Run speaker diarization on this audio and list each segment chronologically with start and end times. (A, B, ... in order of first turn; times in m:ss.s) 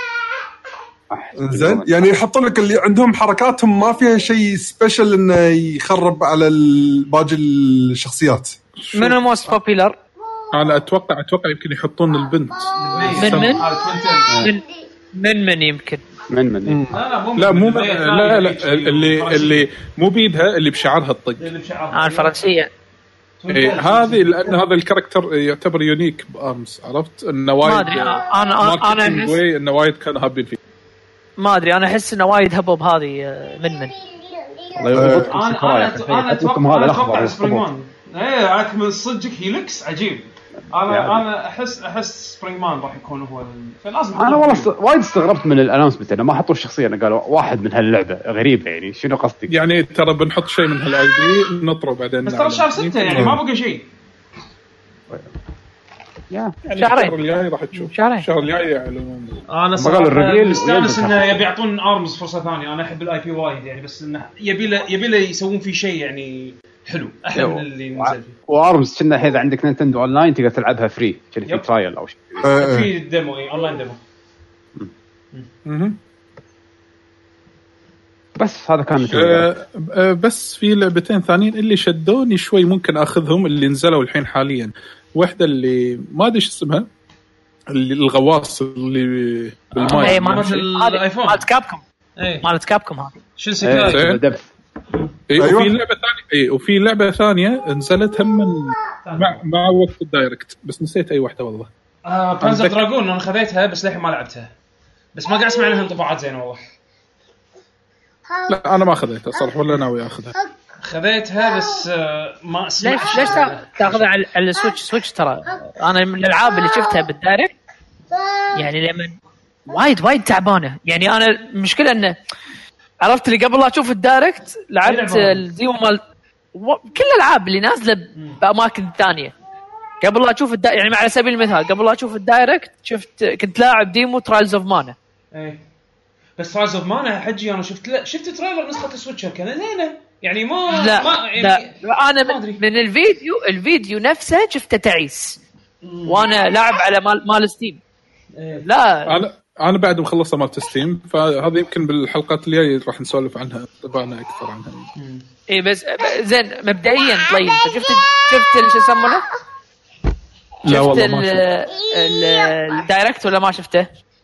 0:01.1-0:01.9 A
0:01.4-0:08.6 B
0:08.8-0:09.2 C
0:08.9-0:10.0 D
0:10.5-0:13.6 C
0:12.8-0:14.4 E
0:13.1-0:13.6 D
0:14.4-0:16.0 D
0:16.3-0:16.9 A
0:16.7-0:16.9 B
0:16.9-0:19.7 E
0:17.4-0:21.5 C
0:21.4-0:22.4 E
0:21.9-0:22.7 D
0:23.4-0:24.6 E
0:23.5-0:30.6 C
0:27.6-0:29.4 D
0:31.4-0:34.0 D
0:34.8-0:37.6 A
0:34.9-0:35.3 B
0:35.2-0:44.7 E
0:40.9-0:41.2 A
0:44.2-0:49.5 A
0:49.5-0:53.4 C
0:52.2-0:53.9 E
0:53.1-0:53.4 B
0:56.3-0:56.6 A
0:56.7-0:59.4 C
0:56.7-0:57.1 D
0:57.8-0:58.3 D
0:59.5-1:08.4 E
0:59.8-1:01.4 A
1:07.4-1:12.5 A
1:12.4-1:12.9 B
1:12.5-1:14.0 E
1:15.7-1:16.0 C
1:18.4-1:19.5 A
1:19.1-1:26.9 C
1:27.7-1:30.7 C
1:29.7-1:31.4 E
1:29.9-1:31.8 D
1:32.2-1:32.5 E
1:32.4-1:33.2 D
1:33.4-1:34.0 E
1:33.6-1:34.5 A
1:33.8-1:34.2 C
1:35.3-1:41.7 C
1:35.4-1:35.7 B
1:39.0-1:39.4 E
1:42.0-1:44.5 E
1:42.4-1:42.8 C
1:45.1-1:46.6 E
1:48.5-1:50.4 C
1:50.8-1:54.1 E
1:52.8-1:57.6 D
1:58.5-1:59.2 D
1:59.7-2:02.1 D
2:03.0-2:06.0 D
2:04.8-2:05.4 E
2:06.5-2:09.3 D
2:10.0-2:15.0 D
2:15.3-2:15.6 E
2:16.4-2:22.6 E
2:20.7-2:25.4 D
2:25.8-2:26.3 E
2:26.1-2:27.8 D
2:28.4-2:28.7 E
2:28.6-2:29.2 D
2:29.1-2:34.9 C
2:35.0-2:35.2 E
2:35.5-2:39.2 D
2:40.6-2:43.9 D
2:40.6-2:41.4 C